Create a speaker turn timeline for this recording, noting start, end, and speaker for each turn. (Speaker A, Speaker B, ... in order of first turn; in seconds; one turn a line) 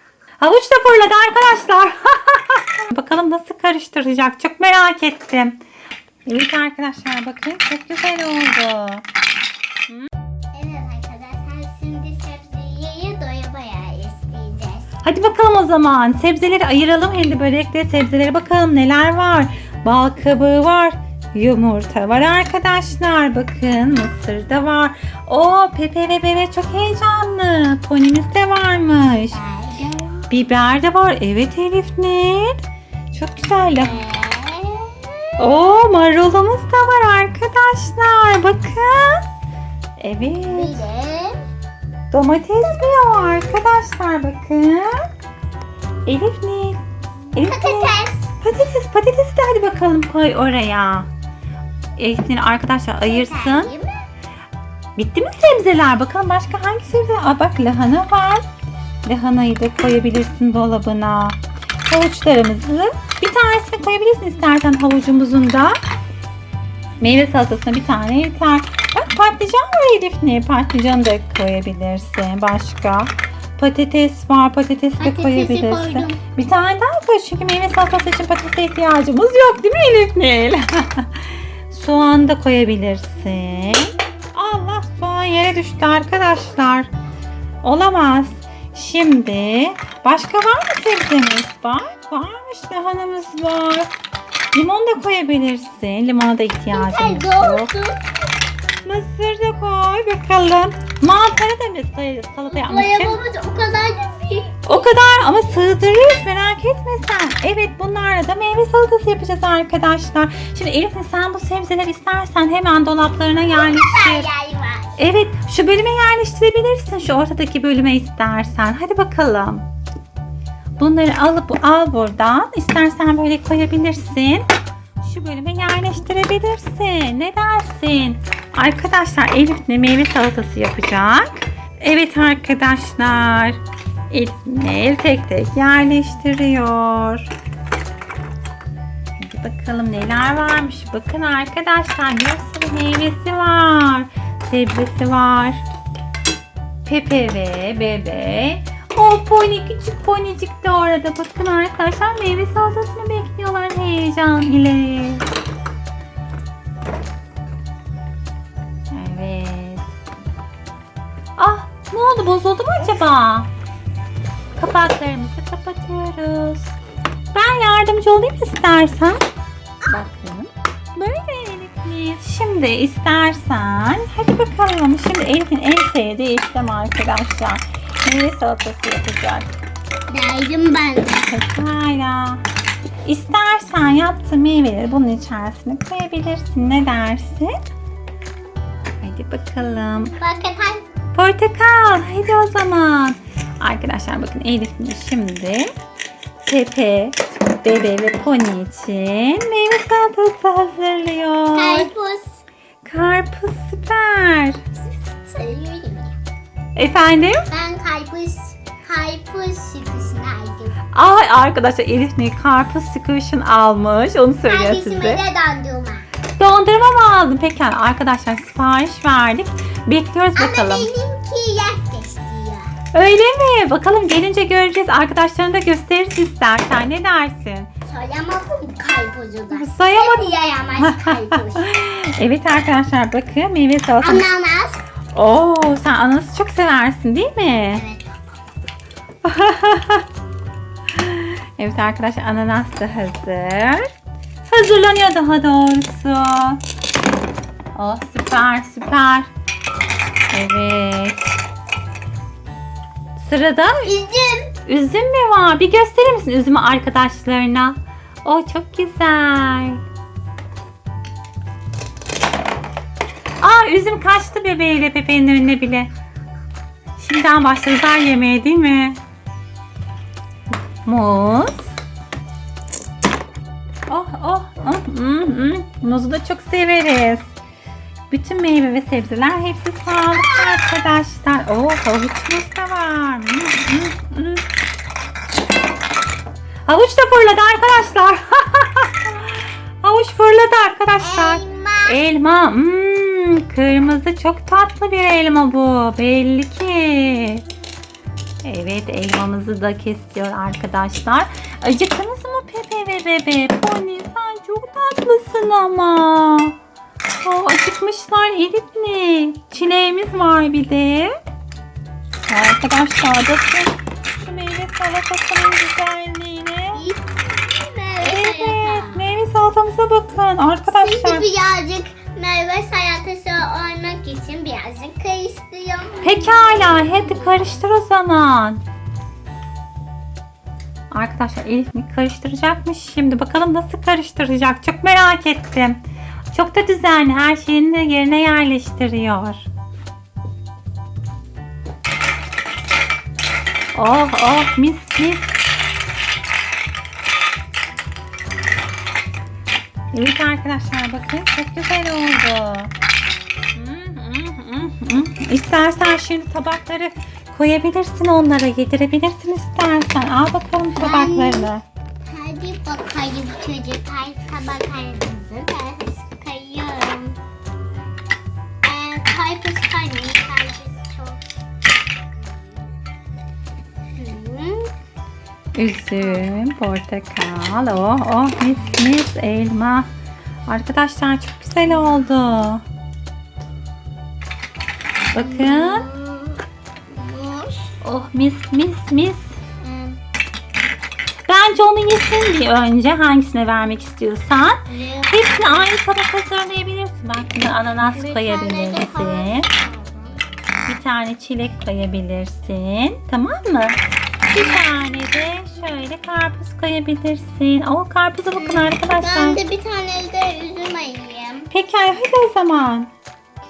Speaker A: 0.4-5.6
Speaker A: 6.3-9.1
Speaker B: 10.5-14.9
Speaker A: 15.0-29.4
Speaker B: 29.3-30.3
Speaker A: 30.3-32.6
Speaker A: 33.1-34.0
Speaker B: 33.8-35.4
Speaker A: 35.4-39.2
Speaker A: 40.0-40.8
Speaker B: 40.4-41.4
Speaker A: 42.1-45.1
Speaker A: 46.0-46.8
Speaker A: 47.3-51.1
Speaker B: 47.4-48.3
Speaker A: 52.0-53.7
Speaker B: 53.0-54.0
Speaker A: 55.0-58.5
Speaker A: 59.0-65.8
Speaker A: 67.0-86.9
Speaker B: 75.0-76.2
Speaker A: 87.6-93.9
Speaker A: 94.5-97.7
Speaker B: 96.7-98.0
Speaker A: 98.8-103.2
Speaker B: 102.5-104.7
Speaker A: 104.7-114.3
Speaker B: 113.5-115.0
Speaker A: 115.0-119.7
Speaker A: 120.8-124.5
Speaker A: 125.0-137.3
Speaker A: 139.2-145.7
Speaker A: 146.8-155.2
Speaker A: 158.9-159.9
Speaker A: 161.4-163.5
Speaker A: 164.6-166.8
Speaker A: 167.3-169.2
Speaker A: 169.9-179.6
Speaker B: 180.1-181.3
Speaker A: 181.2-182.4
Speaker A: 183.1-187.6
Speaker A: 189.0-190.2
Speaker B: 190.2-190.8
Speaker A: 191.2-195.7
Speaker A: 196.4-201.9
Speaker B: 201.6-202.4
Speaker A: 202.8-204.6
Speaker B: 204.7-206.2
Speaker A: 206.8-207.5
Speaker B: 207.5-210.8
Speaker A: 210.9-215.2
Speaker B: 214.5-216.1
Speaker A: 216.4-220.9
Speaker B: 220.3-222.7
Speaker A: 222.9-227.7
Speaker B: 227.8-231.7
Speaker A: 229.5-234.3
Speaker B: 234.0-234.8
Speaker A: 235.1-237.8
Speaker B: 237.7-238.1
Speaker A: 239.2-240.1
Speaker A: 240.9-243.9
Speaker A: 244.4-246.6
Speaker A: 247.8-249.3
Speaker A: 250.3-251.2
Speaker A: 253.2-253.9
Speaker B: 253.8-254.5
Speaker A: 254.7-259.8
Speaker A: 263.4-265.9
Speaker A: 267.0-269.0
Speaker A: 270.9-271.8
Speaker A: 273.9-277.3
Speaker A: 278.1-284.4
Speaker A: 286.7-297.4
Speaker B: 291.0-292.0
Speaker A: 298.4-306.6
Speaker A: 307.2-311.2
Speaker A: 312.3-316.8
Speaker B: 316.7-319.1
Speaker A: 318.0-321.3
Speaker B: 320.7-327.6
Speaker A: 326.0-328.6
Speaker A: 330.9-335.8
Speaker A: 336.3-339.4
Speaker A: 343.8-345.3
Speaker A: 349.9-352.7
Speaker A: 353.6-361.6
Speaker B: 360.8-361.5
Speaker B: 362.1-367.2
Speaker B: 368.6-371.2
Speaker B: 372.2-372.7
Speaker B: 373.9-374.7
Speaker A: 375.6-379.9
Speaker B: 375.9-376.4
Speaker A: 380.5-382.6
Speaker A: 385.1-385.9
Speaker B: 385.1-387.8
Speaker A: 387.8-389.4
Speaker B: 389.6-390.0
Speaker A: 391.2-399.5
Speaker B: 394.7-395.7
Speaker B: 397.8-400.2
Speaker A: 400.7-409.4
Speaker B: 404.4-404.6
Speaker B: 408.4-411.5
Speaker A: 411.5-412.9